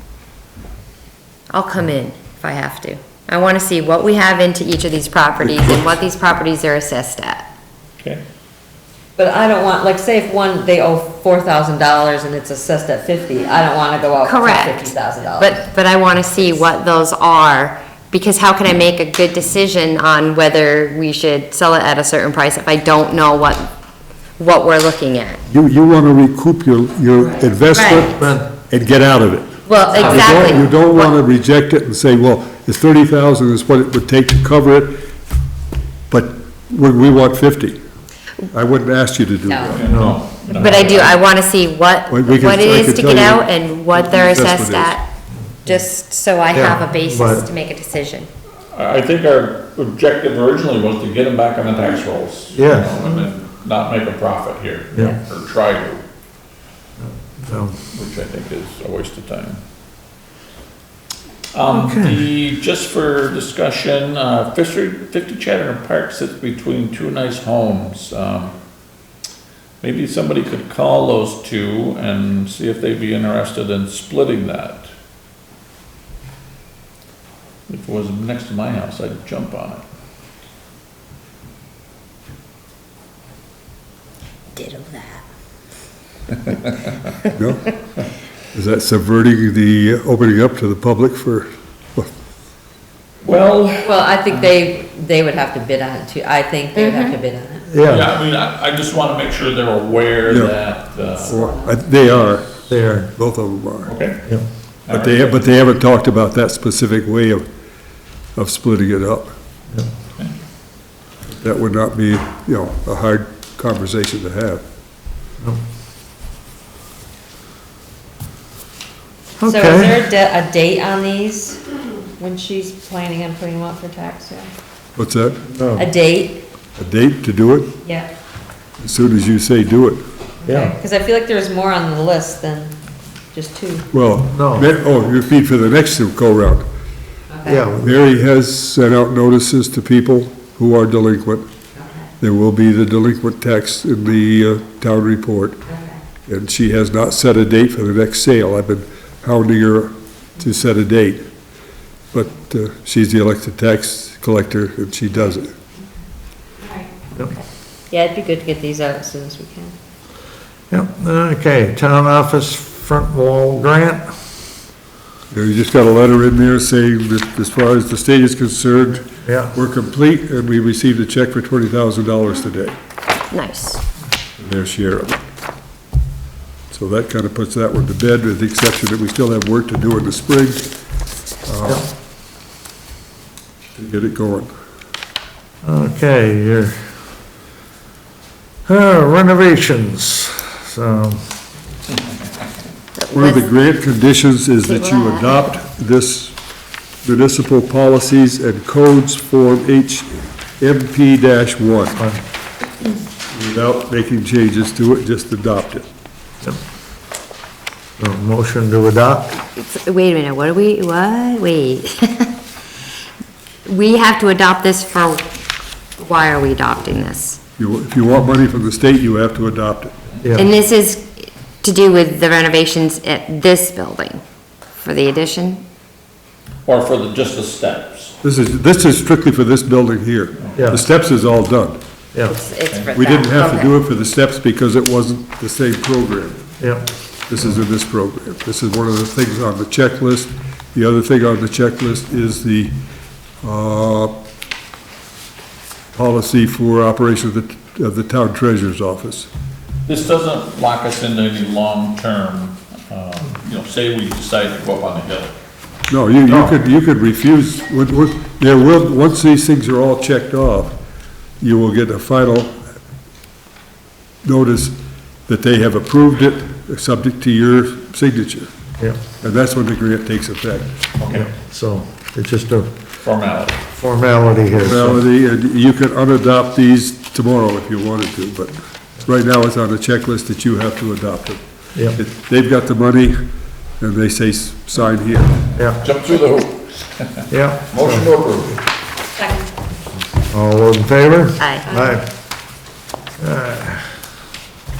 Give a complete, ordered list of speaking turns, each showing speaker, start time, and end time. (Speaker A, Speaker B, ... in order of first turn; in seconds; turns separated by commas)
Speaker A: 1.5-7.4, Speaker B: 9.2-15.6, Speaker A: 14.2-23.7, Speaker A: 24.4-25.4, Speaker C: 25.5-35.0, Speaker A: 27.7-28.1, Speaker D: 28.1-28.4, Speaker A: 29.7-31.1, Speaker B: 29.9-30.6, Speaker C: 36.1-37.8, Speaker C: 38.5-39.9, Speaker B: 39.5-39.8, Speaker E: 39.7-41.2, Speaker D: 39.9-40.2, Speaker A: 40.5-45.1, Speaker C: 42.1-45.0, Speaker A: 45.6-48.3, Speaker D: 46.5-47.4, Speaker E: 48.7-56.0, Speaker D: 52.5-53.1, Speaker D: 57.0-57.8, Speaker E: 57.9-59.6, Speaker E: 61.5-68.5, Speaker D: 61.7-62.2, Speaker E: 69.8-74.9, Speaker E: 77.7-79.8, Speaker A: 84.5-85.2, Speaker C: 87.3-87.8, Speaker C: 88.5-92.1, Speaker E: 93.2-94.0, Speaker B: 93.8-97.7, Speaker A: 96.7-97.1, Speaker D: 97.7-98.1, Speaker E: 97.8-101.3, Speaker C: 100.3-100.5, Speaker B: 101.1-101.8, Speaker C: 101.3-103.9, Speaker D: 102.7-103.1, Speaker E: 103.8-104.2, Speaker E: 104.8-105.4, Speaker C: 104.9-107.4, Speaker C: 108.3-109.3, Speaker C: 111.4-114.6, Speaker D: 119.4-120.0, Speaker B: 119.4-121.6, Speaker B: 122.2-124.5, Speaker C: 125.0-125.4, Speaker D: 125.5-125.9, Speaker B: 125.7-126.4, Speaker C: 126.8-127.7, Speaker B: 127.8-128.1, Speaker C: 128.8-130.0, Speaker B: 130.4-132.7, Speaker D: 130.4-130.7, Speaker B: 133.3-133.8, Speaker C: 133.9-136.7, Speaker D: 134.3-134.7, Speaker B: 137.3-137.7, Speaker D: 137.4-138.0, Speaker C: 137.8-141.4, Speaker C: 142.2-145.6, Speaker C: 146.3-151.3, Speaker C: 152.1-155.5, Speaker B: 156.6-157.4, Speaker B: 157.9-159.8, Speaker D: 160.7-164.2, Speaker C: 165.3-172.7, Speaker D: 169.2-169.5, Speaker A: 173.3-173.8, Speaker C: 174.4-175.2, Speaker C: 176.7-180.7, Speaker C: 181.4-181.9, Speaker C: 183.7-184.5, Speaker D: 185.6-186.8, Speaker D: 188.7-191.2, Speaker A: 193.0-193.4, Speaker C: 193.1-196.3, Speaker A: 194.7-195.5, Speaker C: 197.0-202.0, Speaker D: 202.0-202.2, Speaker C: 203.3-205.8, Speaker D: 208.0-209.3, Speaker A: 209.3-212.3, Speaker A: 213.7-215.2, Speaker A: 216.0-217.4, Speaker C: 217.6-220.0, Speaker A: 220.3-224.2, Speaker A: 224.7-225.6, Speaker E: 226.7-228.1, Speaker C: 228.2-231.8, Speaker D: 230.5-230.8, Speaker A: 232.2-233.7, Speaker E: 232.7-232.9, Speaker C: 232.9-236.4, Speaker D: 236.6-236.9, Speaker C: 237.3-242.8, Speaker C: 243.4-244.2, Speaker C: 245.9-249.3, Speaker E: 249.8-255.3, Speaker C: 255.9-260.8, Speaker C: 261.4-262.6, Speaker C: 264.2-264.8, Speaker C: 265.3-268.5, Speaker C: 269.2-270.8, Speaker E: 271.0-271.3, Speaker D: 271.1-272.7, Speaker E: 273.0-273.6, Speaker D: 273.7-275.0, Speaker C: 274.6-281.4, Speaker C: 281.9-283.2, Speaker C: 283.8-285.4, Speaker D: 285.6-285.8, Speaker E: 285.8-288.6, Speaker D: 287.3-288.1, Speaker B: 289.2-289.5, Speaker D: 290.2-292.1, Speaker A: 291.4-291.7, Speaker B: 291.7-292.0, Speaker D: 293.2-293.9